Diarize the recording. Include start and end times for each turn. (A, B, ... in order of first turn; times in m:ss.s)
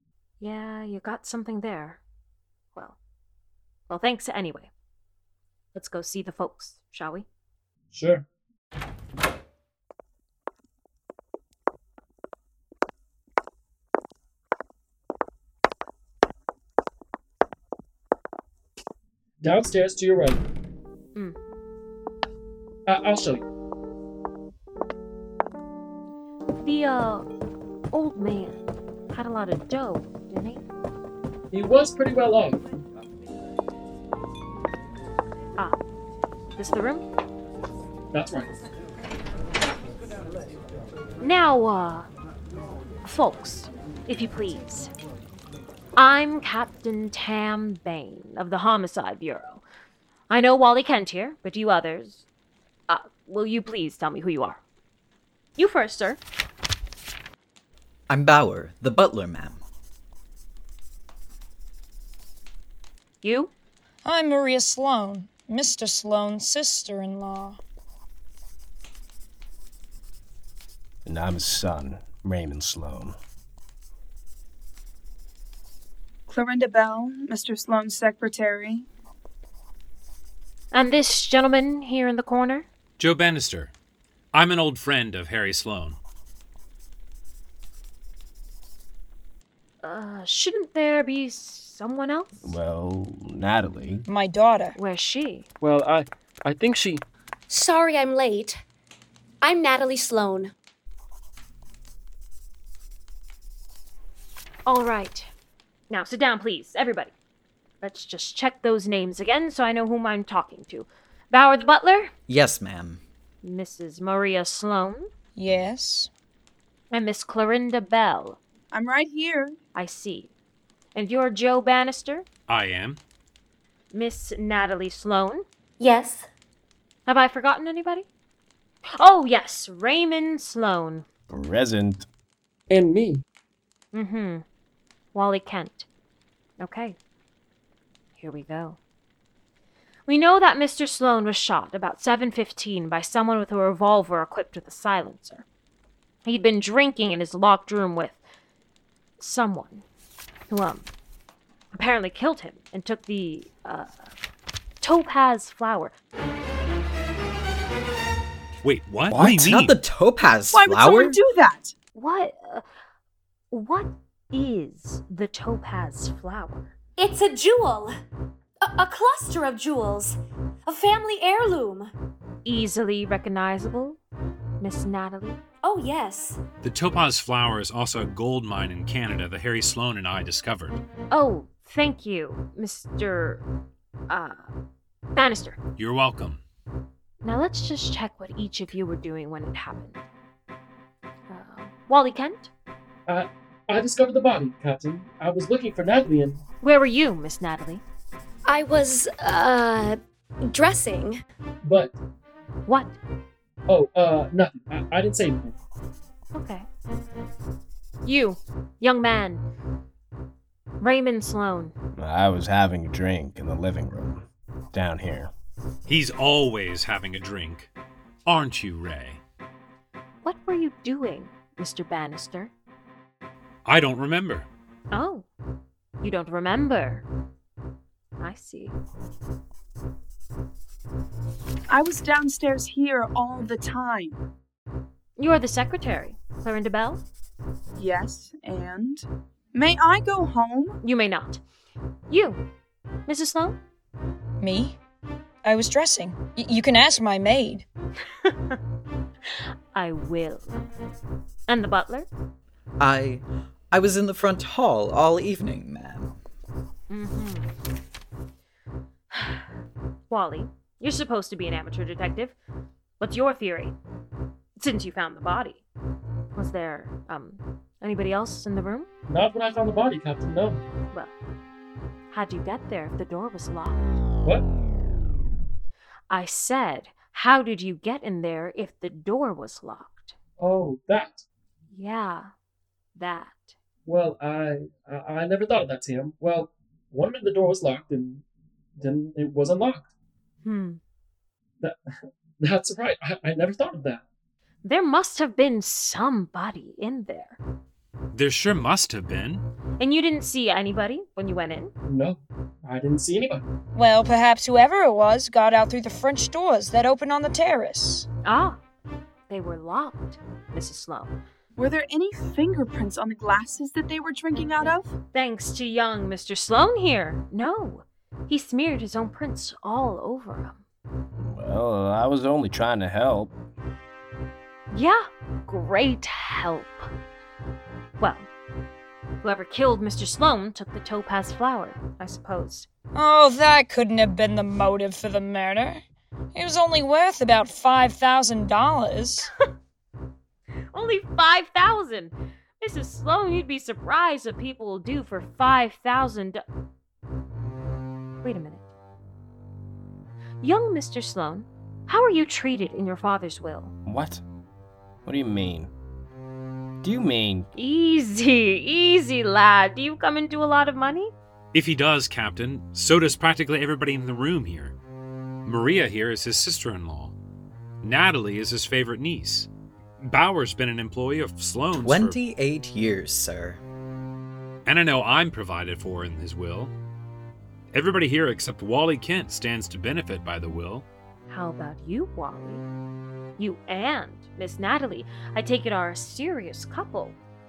0:00.4-0:02.0 A
0:03.9-0:04.7 A
0:05.7-0:07.2 A
0:07.9-0:08.2 B
0:19.4-0:20.4 B
0:22.8-0:23.4 B
0:26.6-0:27.3 A
0:27.9-0:30.6 A
0:31.5-0:32.8 B
0:36.6-0:37.0 A
0:38.1-0:38.5 B
0:41.2-0:42.1 A
0:43.0-0:44.9 A
0:46.0-0:49.6 A
0:50.3-0:52.2 A
0:52.9-0:54.6 A
0:55.6-0:56.2 A
0:58.1-0:59.6 C
1:03.2-1:03.5 A
1:04.0-1:07.6 D
1:11.0-1:13.2 E
1:16.3-1:18.8 F
1:20.7-1:22.7 A
1:23.0-1:23.7 G
1:24.3-1:26.0 G
1:29.8-1:32.5 A
1:32.4-1:34.0 E
1:34.1-1:34.8 D
1:34.8-1:35.5 A
1:35.6-1:37.0 B
1:37.5-1:38.6 H
1:39.4-1:40.5 H
1:44.6-1:45.3 A
1:45.9-1:47.1 A
1:47.8-1:52.1 A
1:52.3-1:53.0 C
1:53.4-1:55.1 A
1:55.3-1:56.1 D
1:56.9-1:58.4 A
1:58.7-1:59.6 F
1:59.7-2:00.3 A
2:00.9-2:02.3 A
2:02.5-2:03.0 G
2:03.9-2:05.4 A
2:05.8-2:06.3 H
2:07.0-2:08.1 A
2:09.0-2:11.1 A
2:11.3-2:12.1 E
2:12.7-2:13.2 B
2:13.9-2:14.4 A
2:15.1-2:15.9 A
2:16.6-2:17.0 A
2:18.2-2:18.8 A
2:20.1-2:25.4 A
2:26.2-2:28.2 A
2:29.2-2:29.8 A
2:30.5-2:30.9 A
2:31.7-2:34.1 A
2:34.8-2:35.9 A
2:38.6-2:39.7 G
2:39.2-2:41.2 C
2:40.5-2:41.7 F
2:41.9-2:42.6 A
2:43.5-2:46.7 A
2:47.0-2:47.9 H
2:48.6-2:51.9 H
2:52.4-2:54.0 A
2:54.6-2:55.4 A
2:55.6-2:56.4 H
2:56.6-3:00.8 G
3:01.1-3:03.4 A
3:04.1-3:04.5 A
3:05.1-3:05.6 A
3:05.8-3:06.4 G
3:07.2-3:10.0 A
3:11.3-3:12.5 A
3:13.1-3:16.4 B
3:16.6-3:17.8 A
3:18.5-3:21.2 H
3:21.6-3:22.0 B
3:22.6-3:22.9 A
3:23.7-3:25.6 B
3:26.3-3:26.7 A
3:28.0-3:29.4 A
3:30.8-3:31.7 A
3:31.9-3:35.3 E
3:35.9-3:37.7 G
3:38.2-3:39.2 G
3:40.2-3:42.5 A
3:43.6-3:44.5 G
3:44.9-3:45.2 A
3:46.0-3:47.0 A
3:48.2-3:48.8 A
3:51.7-3:54.2 F
3:55.2-3:57.0 A
3:57.8-4:00.8 F
4:00.8-4:01.4 A
4:02.1-4:02.4 A
4:03.1-4:03.6 A
4:04.4-4:04.8 D
4:05.4-4:07.6 D
4:08.3-4:08.6 A
4:09.7-4:10.6 A
4:11.5-4:12.1 A
4:12.8-4:16.1 C
4:16.9-4:17.5 A
4:19.1-4:19.4 A
4:20.1-4:22.3 A
4:23.0-4:23.8 A
4:24.6-4:25.6 A
4:26.3-4:28.9 A
4:29.1-4:30.6 B
4:32.1-4:33.8 A
4:36.1-4:40.2 A
4:40.4-4:41.2 B
4:41.7-4:42.3 A
4:42.9-4:43.6 A
4:43.8-4:48.2 B
4:48.8-4:49.9 B
4:50.4-4:50.8 A
4:52.4-4:54.0 B
4:54.6-4:57.4 A
4:58.1-4:59.4 G
4:59.8-5:01.7 A
5:01.8-5:03.5 B
5:03.7-5:08.1 D
5:08.2-5:08.6 A
5:09.3-5:11.1 A
5:11.6-5:14.9 F
5:15.1-5:20.6 A
5:21.2-5:23.4 E
5:24.7-5:26.9 A
5:28.0-5:28.3 A
5:29.2-5:32.7 A
5:32.9-5:35.8 D
5:36.3-5:39.3 D
5:40.7-5:46.4 A
5:48.2-5:48.7 A
5:50.4-5:53.7 A
5:53.8-5:54.2 E
5:55.0-5:55.7 E
5:56.8-5:57.5 E
5:57.5-6:01.1 A
6:01.5-6:04.7 G
6:05.4-6:07.1 G
6:07.8-6:09.5 G
6:10.0-6:12.2 G
6:11.8-6:13.6 C
6:14.6-6:16.7 G
6:17.7-6:20.9 G
6:21.3-6:22.6 A
6:23.4-6:27.2 A